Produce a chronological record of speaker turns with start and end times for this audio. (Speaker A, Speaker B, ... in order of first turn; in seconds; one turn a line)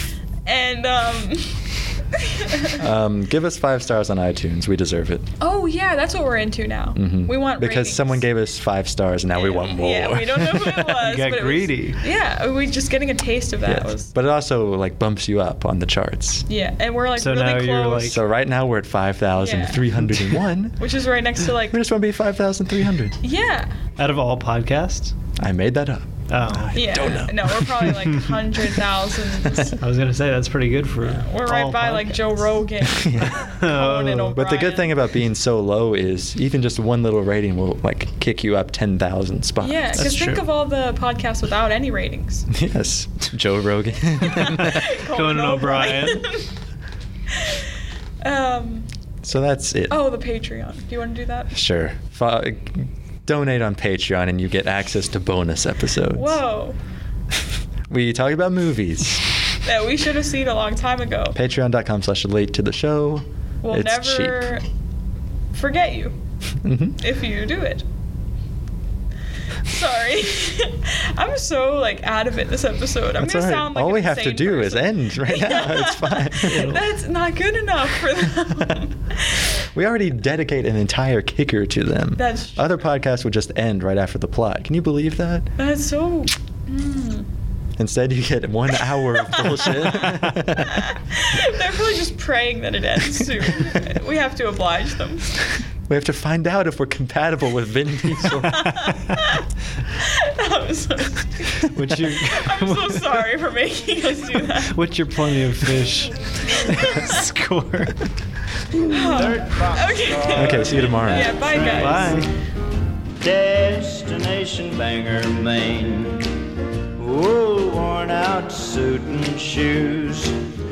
Speaker A: 0.5-2.9
Speaker B: 2.8-5.3
Speaker A: 5.4-8.2
Speaker B: 7.0-10.9
Speaker A: 9.3-14.1
Speaker C: 11.0-12.0
Speaker B: 13.6-16.4
Speaker A: 16.5-18.2
Speaker C: 17.2-18.2
Speaker B: 18.1-20.8
Speaker A: 19.4-19.9
Speaker A: 20.8-21.8
Speaker B: 21.7-23.2
Speaker A: 23.2-23.8
Speaker C: 24.0-25.1
Speaker B: 25.4-28.1
Speaker C: 26.3-27.1
Speaker A: 26.7-29.8
Speaker C: 29.8-32.5
Speaker A: 31.0-34.9
Speaker B: 32.8-33.4
Speaker C: 33.3-34.3
Speaker B: 34.3-40.4
Speaker A: 39.6-42.5
Speaker B: 42.5-44.9
Speaker A: 44.2-46.5
Speaker C: 44.9-46.2
Speaker A: 47.3-47.6
Speaker A: 48.2-48.9
Speaker B: 49.2-50.0
Speaker A: 49.9-51.5
Speaker B: 51.5-56.4
Speaker A: 56.1-56.8
Speaker B: 57.9-59.2
Speaker A: 59.6-61.4
Speaker B: 61.3-64.5
Speaker A: 63.6-64.6
Speaker A: 65.5-66.2
Speaker B: 66.6-67.0
Speaker A: 67.0-67.8
Speaker A: 69.6-79.6
Speaker B: 73.2-76.8
Speaker C: 76.4-76.8
Speaker B: 79.7-85.5
Speaker A: 82.2-82.7
Speaker A: 85.6-87.3
Speaker B: 87.8-90.9
Speaker A: 89.4-95.3
Speaker B: 95.9-98.9
Speaker A: 98.5-104.8
Speaker C: 101.7-103.2
Speaker C: 104.6-108.1
Speaker A: 106.7-107.1
Speaker D: 108.7-112.1
Speaker A: 108.9-112.3
Speaker B: 110.3-111.5
Speaker C: 111.7-112.3
Speaker D: 113.2-116.3
Speaker D: 117.0-120.4